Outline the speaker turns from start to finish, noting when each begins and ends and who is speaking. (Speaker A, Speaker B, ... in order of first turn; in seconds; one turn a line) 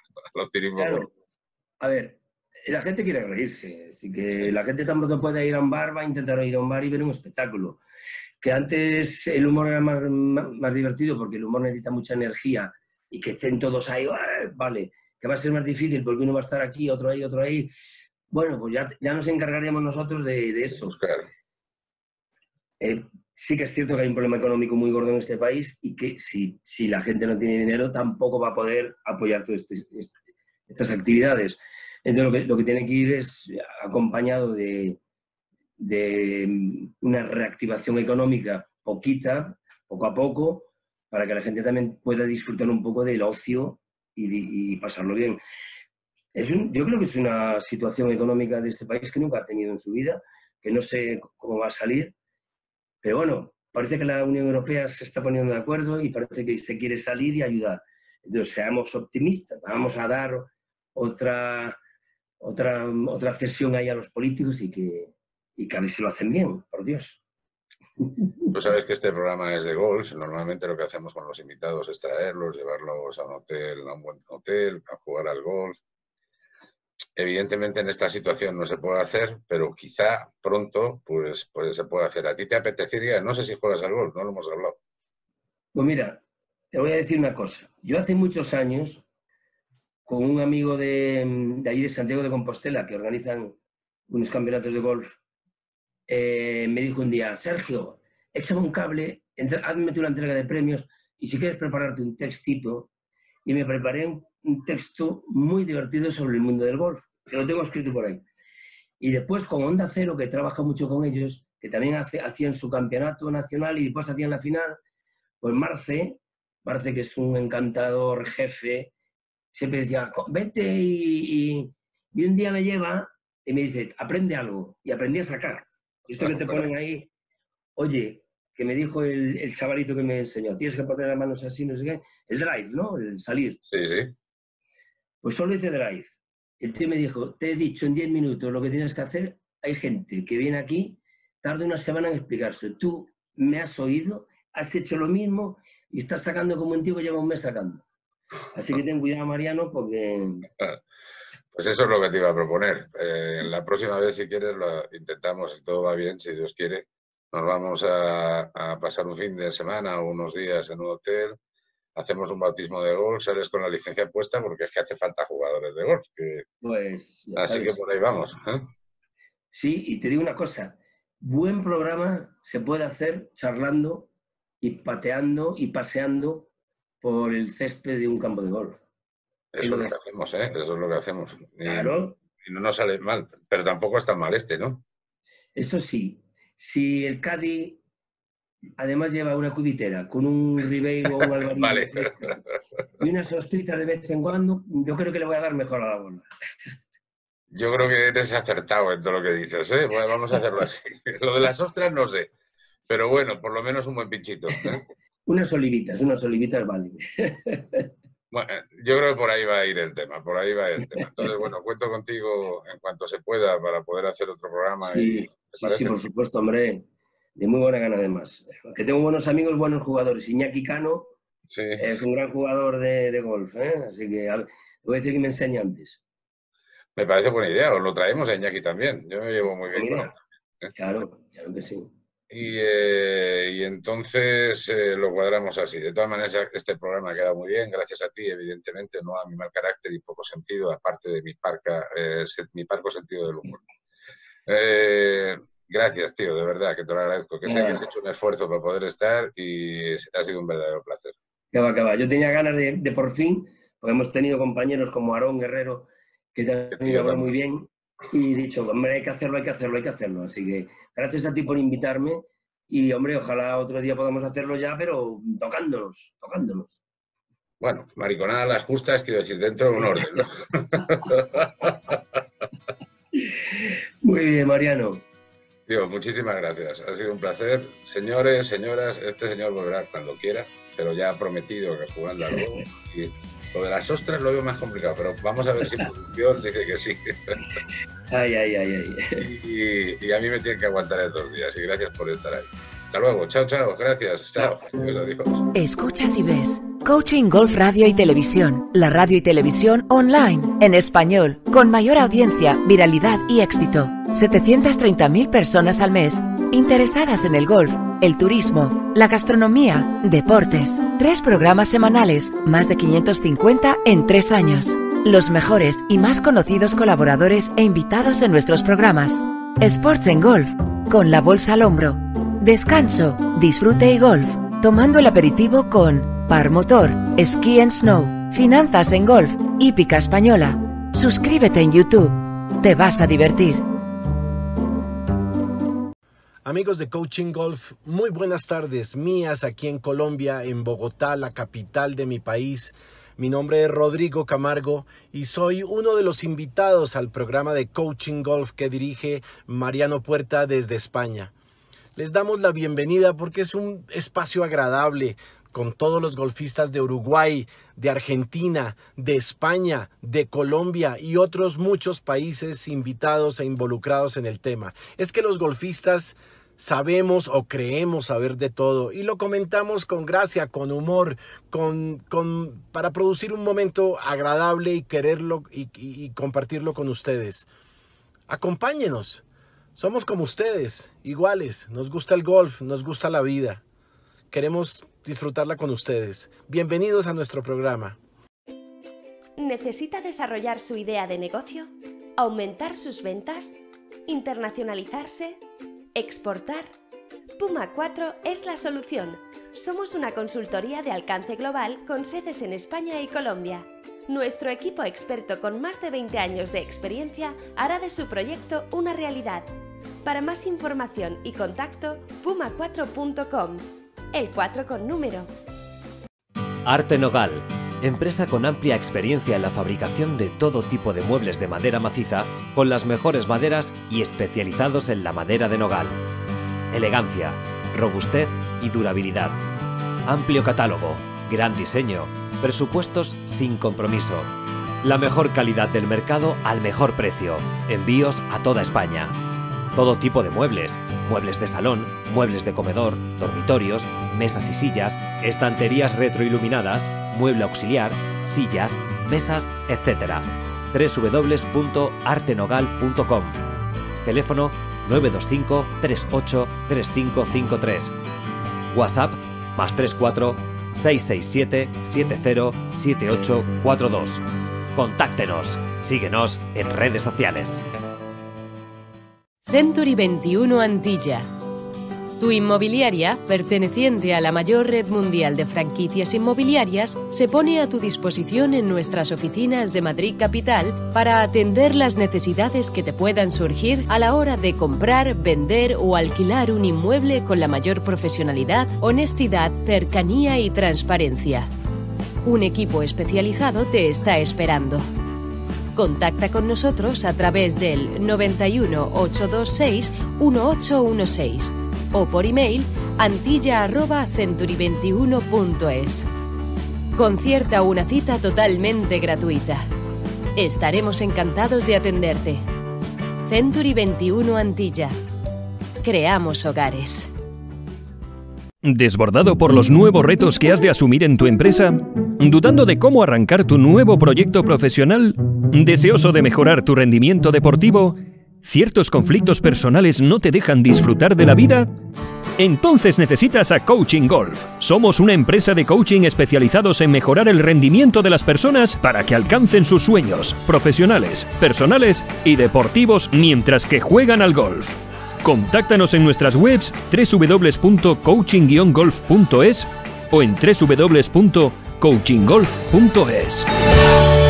Speaker A: 0.3-1.1
Speaker B: 0.8-1.1
Speaker B: 1.8-7.8
Speaker B: 8.4-17.7
Speaker B: 18.3-20.9
Speaker A: 20.7-21.3
Speaker B: 22.8-30.1
Speaker B: 30.7-35.0
Speaker B: 35.8-45.4
Speaker B: 46.3-52.1
Speaker B: 53.0-61.8
Speaker B: 62.4-67.2
Speaker A: 68.5-75.8
Speaker A: 77.2-84.8
Speaker B: 85.7-86.2
Speaker B: 86.7-89.0
Speaker B: 90.0-93.5
Speaker B: 94.1-95.2
Speaker B: 96.1-102.9
Speaker B: 103.5-108.2
Speaker B: 109.0-114.8
Speaker B: 115.4-118.9
Speaker B: 119.5-127.1
Speaker A: 126.2-126.7
Speaker B: 127.8-133.6
Speaker A: 133.7-134.1
Speaker B: 135.2-147.8
Speaker B: 148.5-150.5
Speaker A: 151.5-161.4
Speaker A: 161.9-166.4
Speaker B: 166.6-167.8
Speaker A: 167.4-168.7
Speaker B: 169.5-174.1
Speaker B: 174.6-176.5
Speaker B: 177.0-178.8
Speaker A: 179.5-184.8
Speaker B: 179.6-179.9
Speaker B: 181.6-182.2
Speaker B: 185.5-187.8
Speaker B: 188.8-192.4
Speaker A: 191.5-192.3
Speaker B: 193.0-196.3
Speaker A: 197.5-202.3
Speaker A: 202.9-204.9
Speaker B: 205.2-207.9
Speaker A: 208.3-216.0
Speaker B: 214.8-216.8
Speaker B: 217.3-221.1
Speaker A: 221.5-221.8
Speaker B: 221.8-226.0
Speaker A: 226.9-230.7
Speaker B: 229.7-230.1
Speaker B: 230.7-231.9
Speaker A: 232.3-243.6
Speaker A: 244.5-251.2
Speaker B: 247.4-247.8
Speaker B: 251.5-266.8
Speaker A: 256.8-257.4
Speaker A: 267.6-271.9
Speaker B: 269.8-270.2
Speaker B: 273.1-275.0
Speaker A: 275.7-287.4
Speaker B: 288.1-289.2
Speaker A: 289.2-295.5
Speaker C: 295.5-333.6
Speaker D: 336.4-351.3
Speaker D: 351.9-377.5
Speaker D: 378.3-379.2
Speaker D: 379.8-383.6
Speaker D: 384.3-388.0
Speaker E: 389.4-395.4
Speaker E: 395.9-396.7
Speaker E: 397.4-409.5
Speaker E: 410.0-415.3
Speaker F: 416.6-426.0
Speaker F: 426.7-429.4
Speaker F: 430.1-434.3
Speaker F: 434.8-439.1
Speaker F: 439.7-453.4
Speaker F: 454.0-457.9
Speaker F: 458.7-464.2
Speaker F: 464.7-467.6
Speaker G: 469.5-471.3
Speaker G: 472.2-491.5
Speaker G: 492.2-494.8
Speaker G: 495.8-506.1
Speaker G: 506.9-509.6
Speaker G: 510.4-512.4
Speaker G: 513.3-514.9
Speaker G: 515.8-517.1
Speaker H: 518.6-531.7
Speaker H: 532.4-553.5